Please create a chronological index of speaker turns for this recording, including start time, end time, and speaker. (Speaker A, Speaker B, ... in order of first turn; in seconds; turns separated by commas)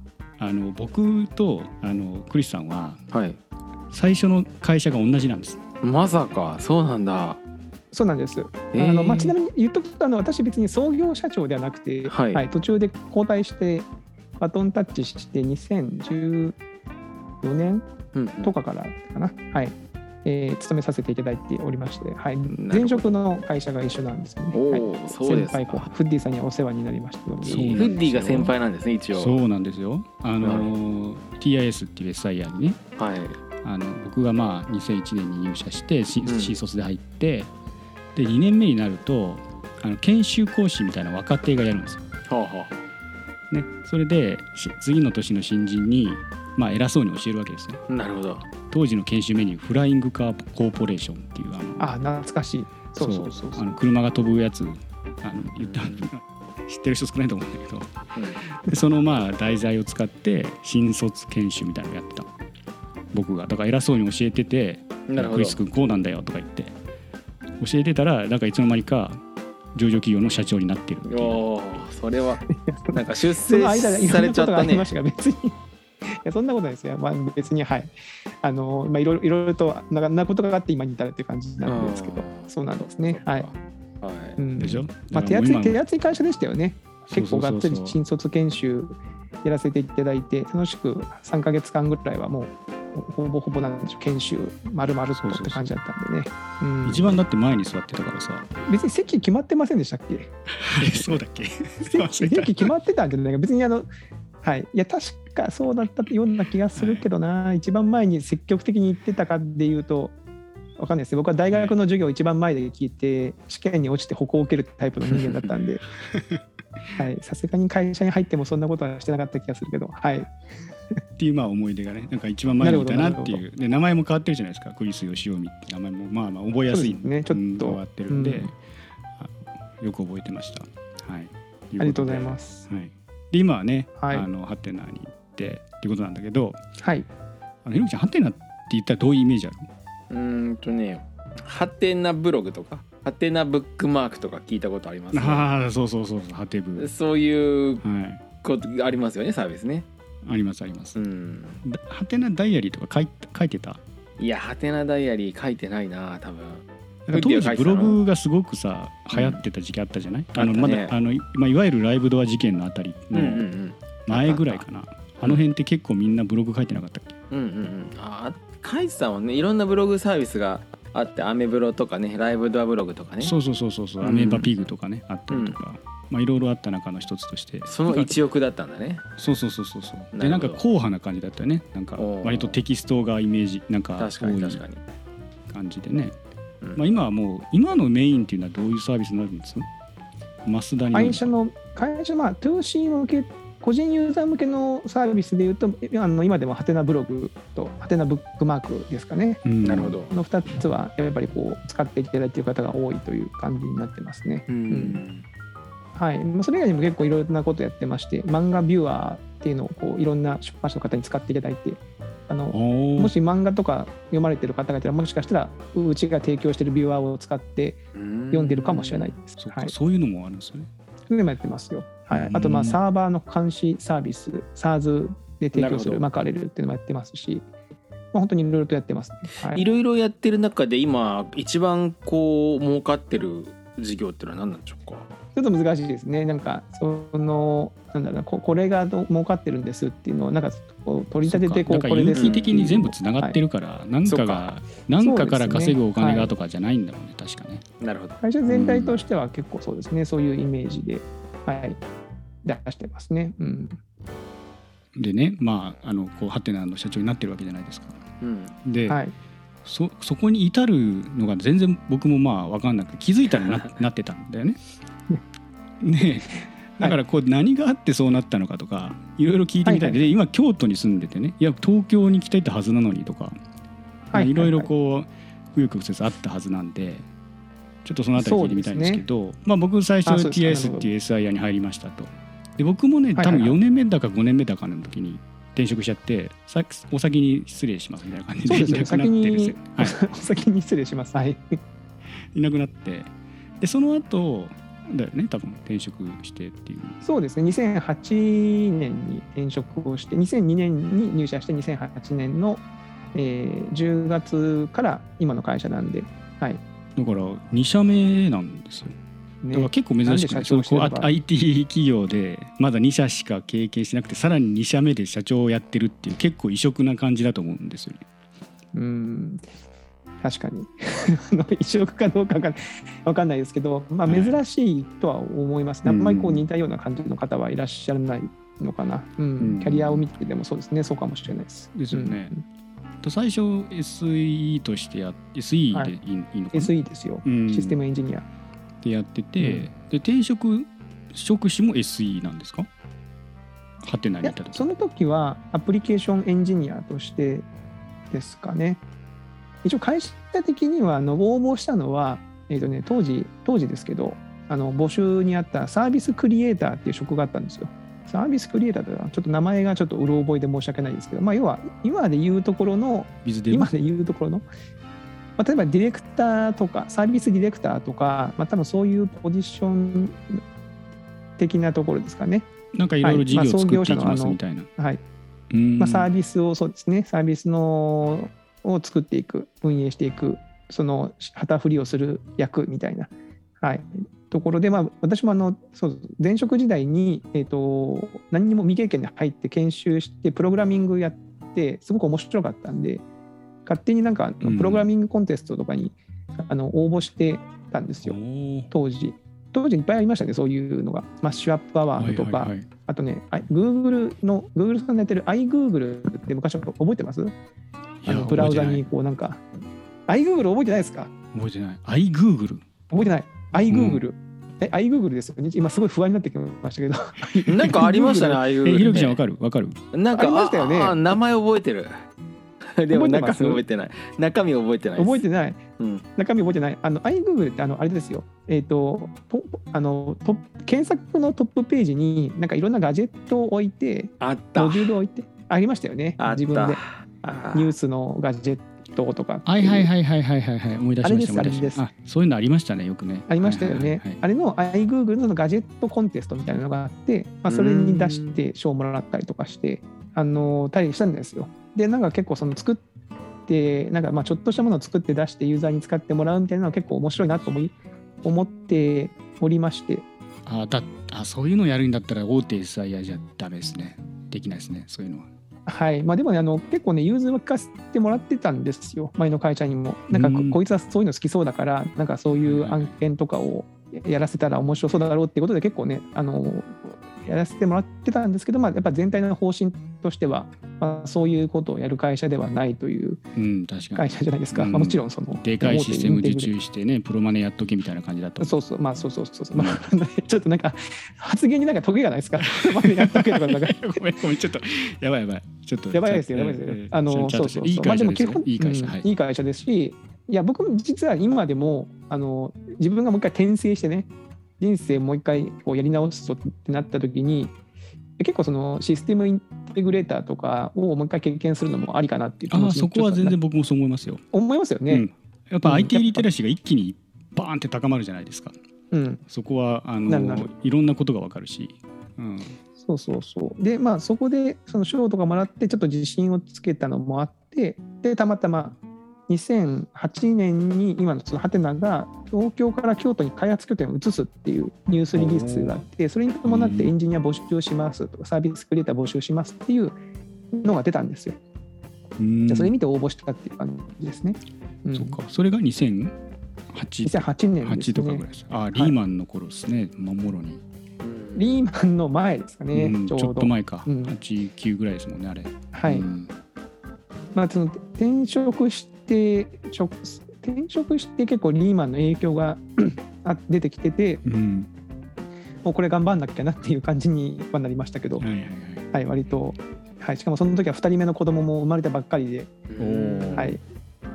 Speaker A: 0.4-3.0, Speaker B: 3.1-3.4, Speaker A: 3.9-5.6, Speaker B: 5.8-7.4, Speaker C: 7.9-13.9, Speaker B: 8.7-9.3, Speaker B: 12.0-12.4, Speaker C: 14.4-16.6, Speaker C: 17.4-17.8, Speaker B: 18.1-18.5, Speaker C: 18.4-27.9, Speaker B: 22.5-23.1, Speaker B: 24.5-25.9, Speaker B: 27.4-29.4, Speaker A: 27.4-28.5, Speaker A: 29.1-32.8, Speaker B: 30.4-30.7, Speaker B: 33.0-33.4, Speaker A: 33.6-37.5, Speaker B: 36.2-36.5, Speaker A: 38.1-42.0, Speaker B: 42.3-42.7, Speaker A: 43.5-47.8, Speaker B: 47.9-48.5, Speaker A: 48.7-51.9, Speaker C: 51.8-53.6, Speaker A: 53.0-57.9, Speaker B: 55.6-56.0, Speaker B: 58.1-58.4, Speaker A: 58.5-62.3, Speaker A: 63.1-66.7, Speaker B: 65.1-65.6, Speaker A: 67.6-69.2, Speaker A: 69.7-71.4, Speaker B: 71.0-72.4, Speaker C: 72.4-75.5, Speaker B: 72.9-74.9, Speaker C: 76.2-83.5, Speaker B: 81.6-84.4, Speaker C: 84.4-97.2, Speaker A: 84.6-85.8, Speaker A: 87.1-88.0, Speaker A: 95.2-95.6, Speaker A: 96.8-98.5, Speaker C: 98.7-101.2, Speaker A: 100.6-102.7, Speaker C: 101.8-103.9, Speaker C: 104.4-110.1, Speaker A: 106.8-107.1, Speaker C: 110.8-115.9, Speaker B: 115.1-115.5, Speaker A: 116.1-116.4, Speaker C: 117.0-120.3, Speaker A: 121.2-128.6, Speaker C: 122.6-123.4, Speaker C: 126.7-128.5, Speaker A: 129.2-136.6, Speaker C: 131.8-132.7, Speaker C: 134.0-134.3, Speaker C: 136.8-137.1, Speaker A: 137.6-139.7, Speaker B: 140.1-145.4, Speaker A: 145.1-146.9, Speaker B: 146.8-147.8, Speaker A: 147.8-148.2, Speaker B: 148.4-149.8, Speaker A: 150.2-151.0, Speaker B: 150.9-151.6, Speaker A: 151.6-153.8, Speaker B: 154.2-158.0, Speaker A: 157.1-163.4, Speaker B: 159.1-159.4, Speaker B: 160.3-160.9, Speaker B: 163.1-164.6, Speaker A: 164.1-167.2, Speaker B: 167.3-173.3, Speaker A: 173.2-178.1, Speaker B: 174.0-174.5, Speaker B: 175.3-175.6, Speaker B: 177.7-179.0, Speaker A: 179.2-184.6, Speaker B: 180.1-180.6, Speaker B: 182.0-182.6, Speaker B: 184.0-184.8, Speaker A: 185.5-186.1, Speaker A: 186.7-189.7, Speaker A: 190.4-191.3, Speaker C: 190.9-199.4, Speaker A: 199.4-199.9, Speaker B: 199.6-200.1, Speaker C: 200.1-205.0, Speaker B: 204.5-205.2, Speaker C: 205.9-217.8, Speaker A: 212.5-213.1, Speaker B: 217.9-219.2, Speaker C: 218.3-219.7, Speaker A: 219.4-220.7, Speaker C: 221.1-227.4, Speaker A: 222.1-222.8, Speaker B: 225.5-226.1, Speaker C: 228.1-229.6, Speaker B: 229.5-235.1, Speaker C: 235.3-243.4, Speaker A: 241.2-247.6, Speaker B: 242.1-242.4, Speaker C: 244.0-246.3, Speaker B: 247.8-248.2, Speaker C: 248.2-251.8, Speaker A: 248.4-249.0, Speaker C: 252.4-253.8, Speaker A: 255.0-258.0, Speaker B: 258.2-258.5, Speaker A: 258.6-259.0, Speaker C: 258.9-259.1, Speaker A: 259.6-264.6, Speaker B: 263.4-263.7, Speaker A: 265.8-273.3, Speaker C: 269.6-270.0, Speaker C: 274.1-274.7, Speaker A: 274.1-277.1, Speaker A: 277.8-289.9, Speaker C: 278.1-279.0, Speaker C: 280.0-280.9, Speaker C: 283.1-283.6, Speaker C: 288.5-291.4, Speaker A: 292.3-297.0, Speaker C: 297.0-306.6, Speaker A: 306.9-308.9, Speaker C: 309.4-311.1, Speaker A: 309.5-318.0, Speaker C: 318.7-319.4, Speaker C: 320.2-332.4, Speaker A: 324.0-324.4, Speaker A: 325.8-326.5, Speaker A: 329.4-330.1, Speaker A: 331.7-332.3, Speaker A: 333.0-336.7, Speaker C: 336.5-338.2, Speaker A: 337.2-337.8, Speaker A: 338.8-342.7, Speaker C: 339.4-339.7, Speaker A: 343.8-344.6, Speaker C: 344.2-347.5, Speaker C: 348.1-348.8, Speaker C: 349.6-364.4, Speaker A: 363.2-363.7, Speaker C: 365.4-370.4, Speaker C: 371.4-372.5, Speaker A: 372.7-374.7, Speaker C: 373.0-375.0, Speaker A: 375.5-376.1, Speaker C: 375.8-393.0, Speaker C: 393.6-398.2, Speaker A: 394.4-394.9, Speaker A: 398.0-398.7, Speaker C: 398.7-407.3, Speaker A: 402.0-402.6, Speaker A: 408.0-408.9, Speaker C: 408.1-409.4, Speaker C: 410.1-411.1, Speaker A: 411.3-412.6, Speaker C: 412.9-418.4, Speaker A: 413.6-414.0, Speaker B: 417.4-419.2, Speaker A: 418.6-419.8, Speaker B: 419.9-421.9, Speaker C: 420.1-421.1, Speaker B: 422.7-425.2, Speaker C: 422.9-423.6, Speaker C: 425.0-425.6, Speaker B: 425.8-426.0, Speaker C: 426.1-436.8, Speaker B: 434.2-434.9, Speaker B: 436.2-437.7, Speaker C: 437.5-439.9, Speaker A: 439.4-444.2, Speaker C: 441.0-441.8, Speaker C: 443.3-452.8, Speaker B: 447.5-448.4, Speaker C: 453.5-460.1, Speaker A: 460.4-465.3, Speaker C: 465.6-483.2, Speaker A: 470.1-470.6, Speaker A: 472.4-472.9, Speaker A: 483.4-488.5, Speaker C: 483.9-486.5, Speaker C: 488.4-494.1, Speaker A: 489.5-489.9, Speaker A: 492.4-499.1, Speaker C: 495.9-504.1, Speaker C: 504.6-507.5, Speaker C: 508.2-513.4, Speaker A: 512.5-514.2, Speaker C: 514.3-515.1, Speaker A: 514.9-518.5, Speaker C: 515.6-516.2, Speaker C: 518.9-519.2, Speaker A: 519.3-522.6, Speaker C: 520.1-520.5, Speaker C: 522.8-540.0, Speaker A: 535.1-535.8, Speaker A: 536.4-536.9, Speaker C: 540.5-541.4, Speaker A: 542.2-542.7, Speaker C: 542.5-545.2, Speaker A: 544.9-546.1, Speaker A: 546.7-550.6, Speaker C: 547.0-549.0, Speaker B: 551.0-551.6, Speaker C: 551.3-554.1, Speaker A: 552.7-556.3, Speaker C: 555.7-556.1, Speaker C: 557.3-564.2, Speaker A: 564.2-564.7, Speaker C: 565.6-568.2, Speaker A: 568.2-568.9, Speaker C: 568.9-572.5, Speaker B: 572.7-573.5, Speaker A: 572.8-573.6, Speaker C: 573.3-573.6